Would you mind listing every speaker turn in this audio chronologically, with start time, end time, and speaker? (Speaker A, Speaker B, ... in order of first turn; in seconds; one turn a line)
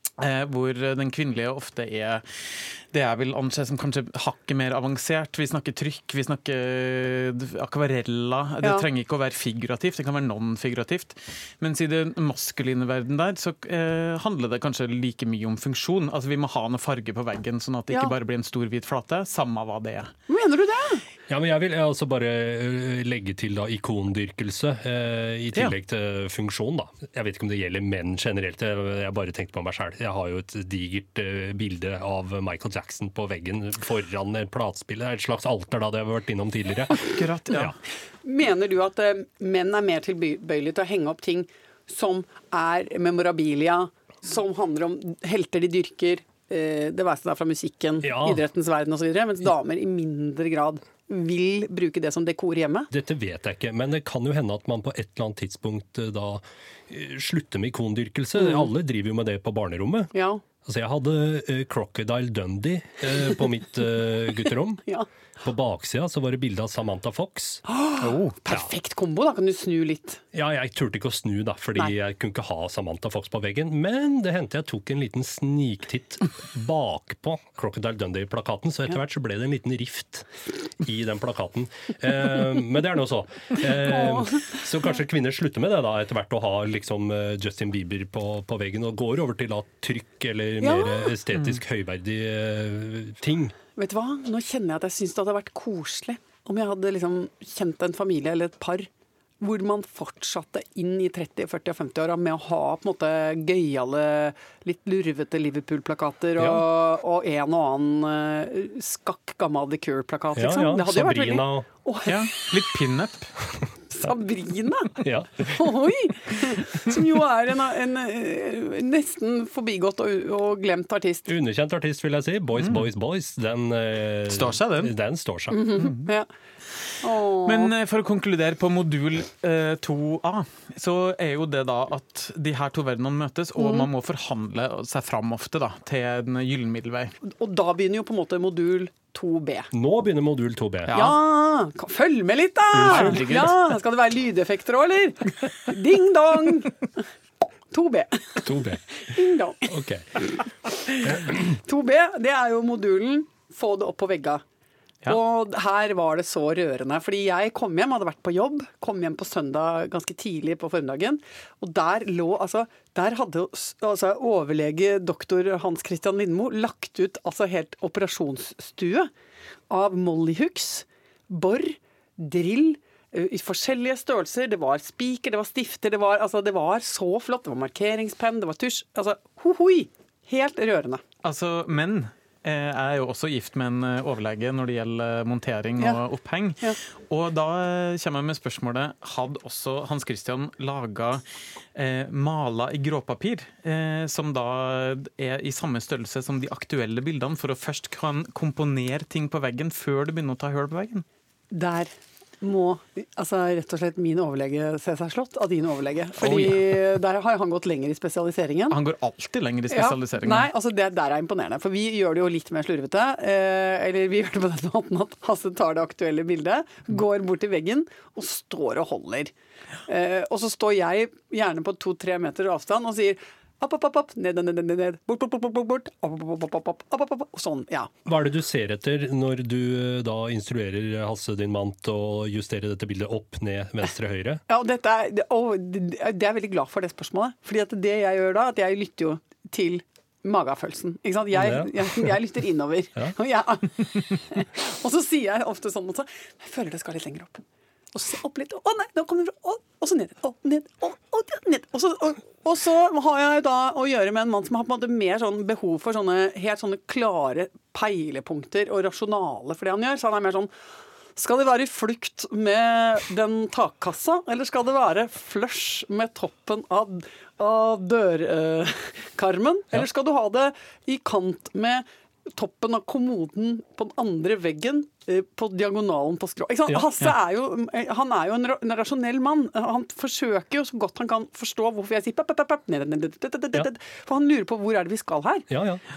Speaker A: 0.2-20.1
Speaker B: 20.3-21.0
Speaker C: 21.3-37.7
Speaker A: 37.0-37.7
Speaker B: 38.2-52.9
Speaker C: 48.0-48.4
Speaker C: 52.9-60.1
Speaker B: 58.4-58.6
Speaker B: 60.1-60.4
Speaker C: 60.6-64.8
Speaker C: 65.4-67.6
Speaker B: 67.7-70.2
Speaker A: 68.0-68.3
Speaker C: 70.3-93.5
Speaker B: 83.6-84.6
Speaker B: 90.6-91.1
Speaker B: 93.8-98.9
Speaker B: 99.4-112.6
Speaker C: 106.4-106.6
Speaker C: 110.3-111.7
Speaker A: 112.0-113.3
Speaker B: 113.9-121.3
Speaker C: 115.0-115.8
Speaker C: 121.3-125.7
Speaker A: 122.6-122.8
Speaker A: 124.3-124.9
Speaker B: 125.5-126.3
Speaker A: 125.8-126.1
Speaker B: 127.0-127.7
Speaker A: 127.4-137.1
Speaker B: 133.6-133.9
Speaker B: 137.2-139.7
Speaker C: 139.7-140.9
Speaker A: 140.9-141.2
Speaker B: 140.9-147.0
Speaker A: 142.7-143.6
Speaker C: 142.8-143.3
Speaker B: 147.7-154.4
Speaker C: 148.4-149.0
Speaker C: 149.7-150.0
Speaker C: 151.0-151.6
Speaker B: 155.1-169.1
Speaker B: 169.7-181.0
Speaker A: 181.2-191.2
Speaker A: 191.7-201.0
Speaker B: 201.5-208.8
Speaker A: 206.2-206.5
Speaker C: 206.3-206.6
Speaker A: 208.7-210.5
Speaker B: 209.7-219.3
Speaker B: 219.9-227.9
Speaker C: 228.1-234.4
Speaker B: 234.5-260.5
Speaker C: 241.3-242.1
Speaker B: 261.1-285.5
Speaker C: 285.5-285.8